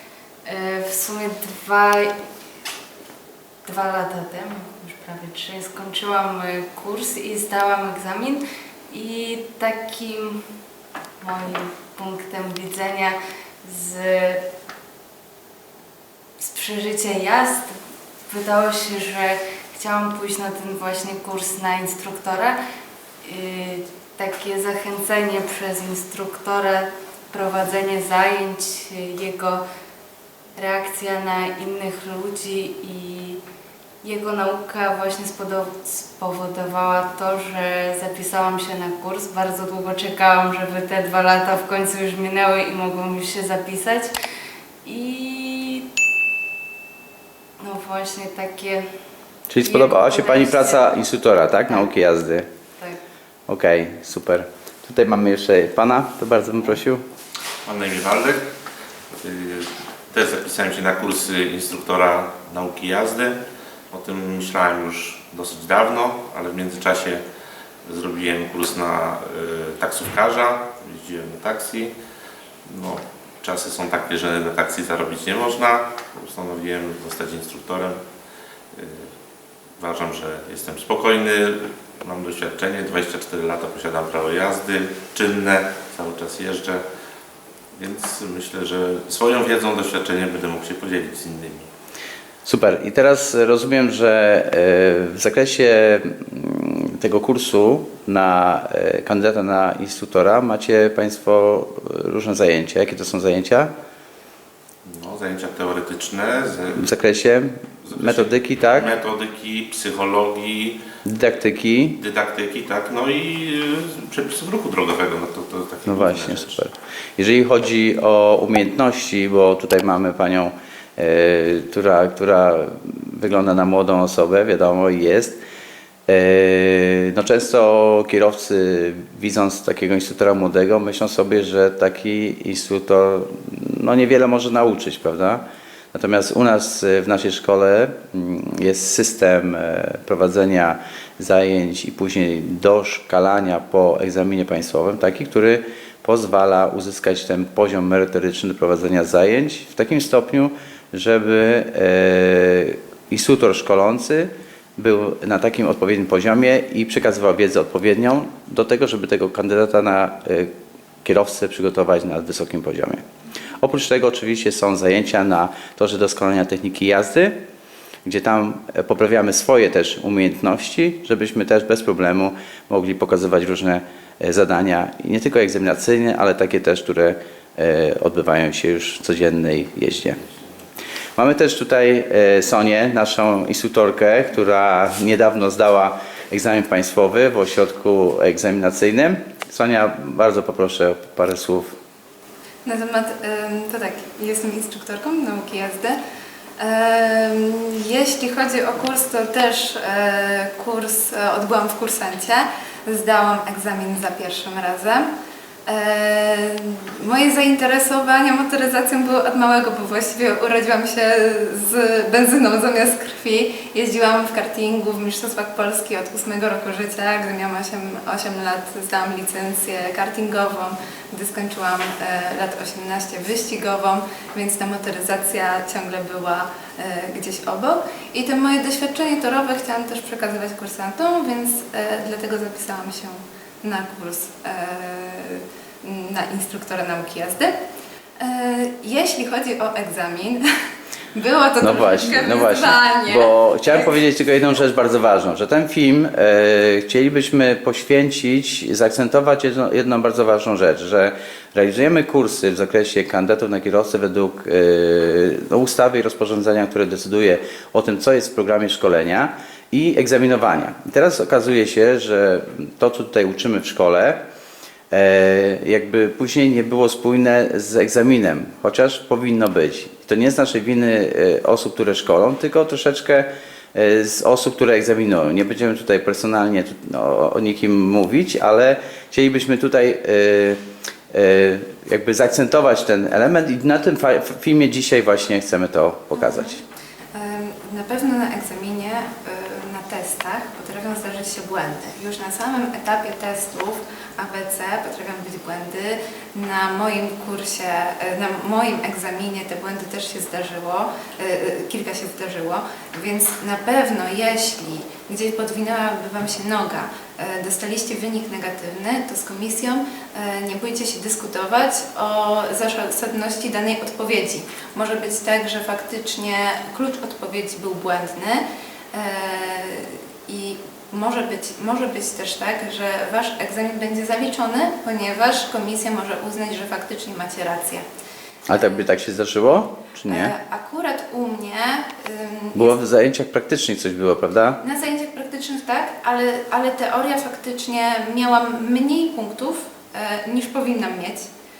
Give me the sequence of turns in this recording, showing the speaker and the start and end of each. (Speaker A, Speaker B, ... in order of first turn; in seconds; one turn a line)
Speaker A: 0.5-2.1
Speaker A: 3.6-10.4
Speaker A: 11.2-14.4
Speaker A: 16.4-17.8
Speaker A: 18.3-22.6
Speaker A: 23.2-29.6
Speaker A: 30.6-33.4
Speaker A: 34.0-44.1
Speaker A: 44.8-45.9
Speaker A: 47.6-48.9
Speaker B: 49.5-52.5
Speaker A: 49.5-50.9
Speaker B: 53.5-57.0
Speaker C: 57.6-58.4
Speaker C: 59.1-63.4
Speaker C: 63.9-67.2
Speaker C: 67.9-71.9
Speaker C: 72.7-78.0
Speaker C: 78.7-79.1
Speaker C: 79.8-86.8
Speaker C: 87.8-91.6
Speaker B: 92.5-103.7
Speaker C: 104.8-107.0
Speaker B: 106.8-108.9
Speaker C: 107.8-110.8
Speaker B: 111.0-112.0
Speaker C: 112.0-116.6
Speaker B: 115.8-125.4
Speaker B: 126.1-135.4
Speaker B: 135.9-160.5
Speaker B: 161.0-163.0
Speaker B: 163.6-167.4
Speaker B: 168.1-180.2
Speaker B: 181.2-191.8
Speaker D: 192.7-196.0
Speaker D: 196.6-205.1
Speaker D: 205.7-237.5
Speaker D: 238.2-240.4
Speaker D: 241.1-244.0
Speaker B: 241.6-264.2
Speaker B: 264.9-280.6
Speaker B: 281.1-286.6
Speaker D: 286.1-286.6
Speaker D: 287.1-327.8
Speaker B: 328.5-330.3
Speaker D: 330.1-332.8
Speaker B: 332.5-334.6
Speaker D: 334.6-341.2